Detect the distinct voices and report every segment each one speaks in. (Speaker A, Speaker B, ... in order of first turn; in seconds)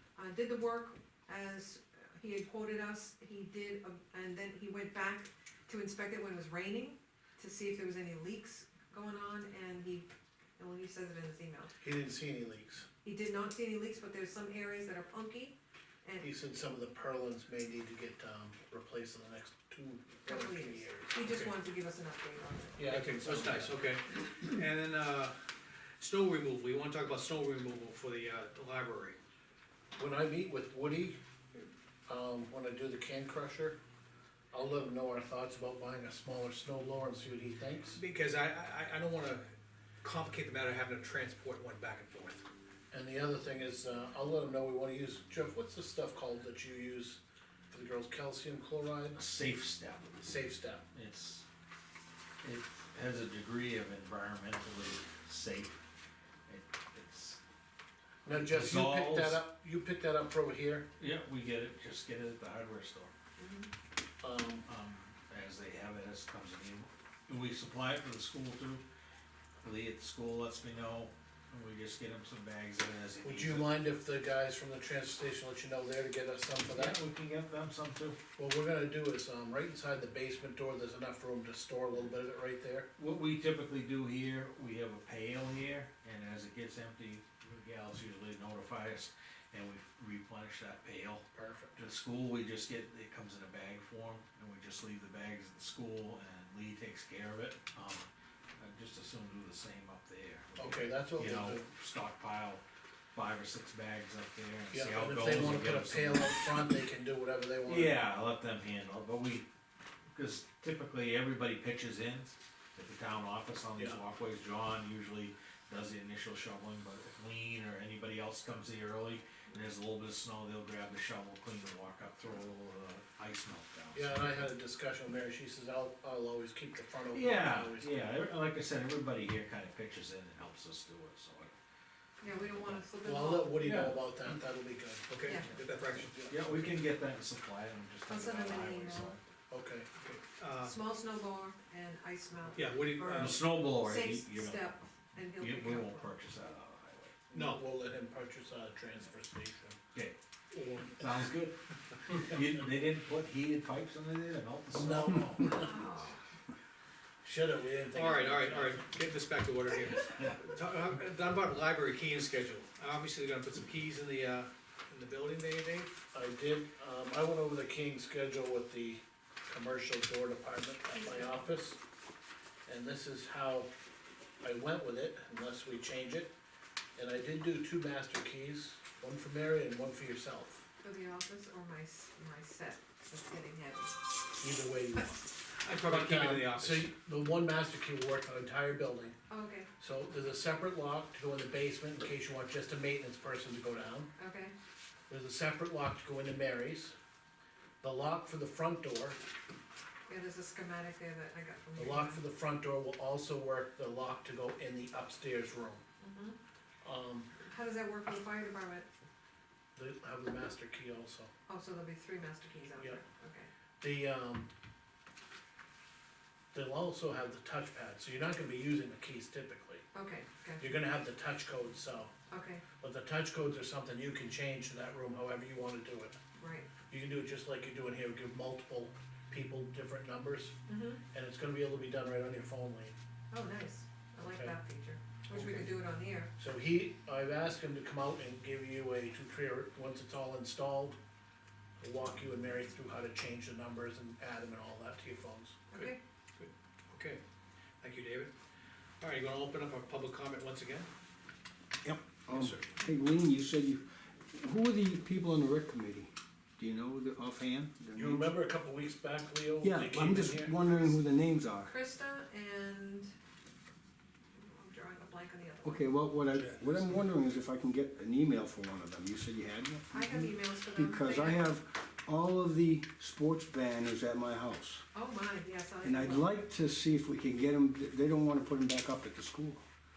Speaker A: 0.1-10.1, 10.6-11.8, 13.0-16.3, 20.2-22.9, 63.4-63.7, 132.2-133.7, 138.1-139.2, 140.6-146.1, 155.4-156.2, 170.9-171.4, 180.8-183.9, 189.3-189.7, 194.2-194.5, 200.1-202.2, 206.0-206.4, 207.5-208.9, 211.5-213.5, 219.9-220.7, 222.3-222.6, 226.3-226.7, 230.7-231.0, 233.3-236.3, 245.7-246.0, 261.6-263.1, 264.3-265.9, 269.9-271.6, 274.9-276.3
Speaker B: 11.8-12.8, 16.2-21.2, 22.8-23.8, 29.9-31.2, 32.1-33.8, 34.5-38.0, 42.9-47.2, 47.7-49.2, 50.2-50.8, 58.2-60.9, 64.2-64.6, 73.2-77.0, 78.4-82.9, 91.3-91.8, 100.6-101.7, 104.7-108.1, 123.9-128.3, 133.0-136.8, 139.5-139.9, 147.3-149.8, 150.5-151.4, 154.7-155.8, 157.2-158.8, 166.1-171.8, 172.7-173.7, 174.4-176.3, 176.9-180.6, 184.4-189.1, 189.8-194.1, 195.1-196.9, 197.8-199.2, 201.8-205.8, 206.8-207.3, 209.8-211.3, 213.8-214.5, 216.5-219.8, 220.6-222.1, 222.8-226.2, 226.9-230.5, 231.1-232.9, 234.2-234.5, 236.4-241.0, 241.8-245.6, 257.9-260.6
Speaker C: 21.2-21.5, 22.8-25.4, 26.0-29.1, 37.9-39.4, 40.0-42.4, 133.6-134.2, 135.1-136.2, 140.0-140.7, 142.6-143.4, 147.3-147.6, 157.9-165.9, 185.6-186.9, 245.7-247.2, 247.8-248.3, 249.0-250.9, 252.2-252.7, 266.4-267.0
Speaker D: 49.1-50.3, 50.9-51.5, 52.4-55.8, 56.5-57.4, 58.3-59.4, 61.0-63.1, 64.7-68.8, 69.6-73.8, 76.7-78.2, 83.0-91.2, 91.8-102.6, 103.1-106.7, 107.6-109.5, 110.1-124.5, 127.1-131.5, 132.2-132.9, 136.3-139.2, 143.1-144.8, 145.3-147.2, 151.0-151.5, 152.1-155.6
Speaker E: 251.8-258.3, 259.6-261.7, 265.6-274.8, 275.8-279.6